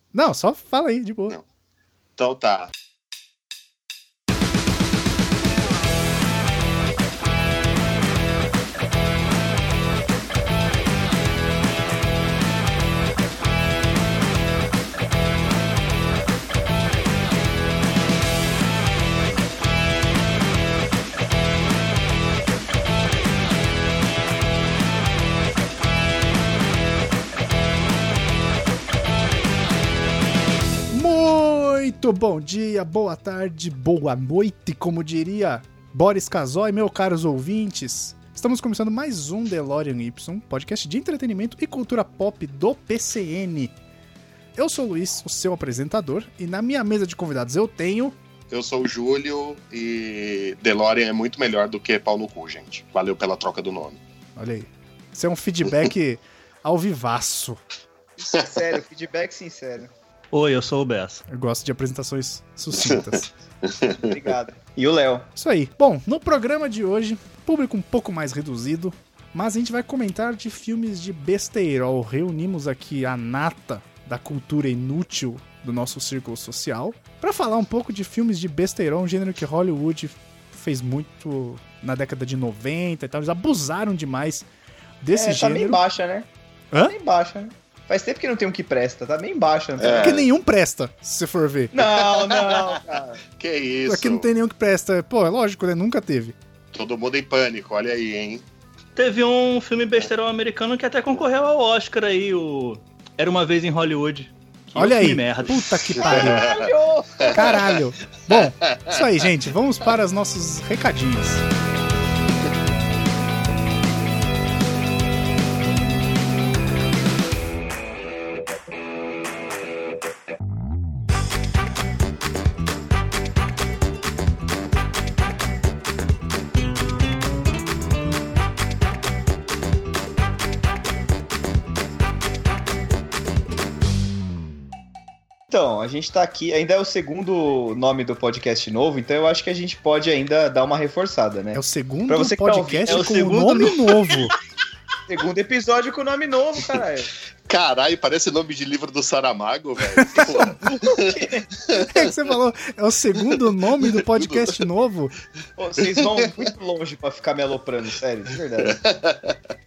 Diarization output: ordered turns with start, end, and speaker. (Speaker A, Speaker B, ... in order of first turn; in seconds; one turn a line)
Speaker A: 0.1-1.4
Speaker B: 2.2-2.7
Speaker A: 30.9-43.8
Speaker A: 44.6-48.2
Speaker B: 48.5-54.0
Speaker A: 54.4-57.6
Speaker C: 58.2-59.9
Speaker D: 60.3-61.2
Speaker A: 61.3-63.3
Speaker B: 62.8-64.1
Speaker C: 63.9-65.3
Speaker A: 65.4-84.5
Speaker A: 85.0-85.8
Speaker C: 85.1-86.3
Speaker C: 86.8-90.2
Speaker B: 89.8-90.3
Speaker A: 90.0-91.8
Speaker C: 91.7-93.2
Speaker B: 91.9-92.8
Speaker B: 93.3-94.3
Speaker A: 93.9-96.3
Speaker B: 96.7-98.4
Speaker D: 99.0-105.7
Speaker A: 104.8-106.5
Speaker C: 106.0-107.5
Speaker B: 106.1-106.6
Speaker B: 107.2-109.0
Speaker A: 107.2-111.4
Speaker C: 135.5-143.3
Speaker A: 141.5-144.3
Speaker D: 142.9-144.3
Speaker C: 145.1-147.1
Speaker B: 147.5-151.0
Speaker A: 149.9-150.3
Speaker C: 150.1-151.5
Speaker B: 151.7-152.1
Speaker A: 151.8-155.1
Speaker B: 153.3-154.6
Speaker C: 155.6-158.8
Speaker B: 155.8-156.2
Speaker B: 158.7-159.3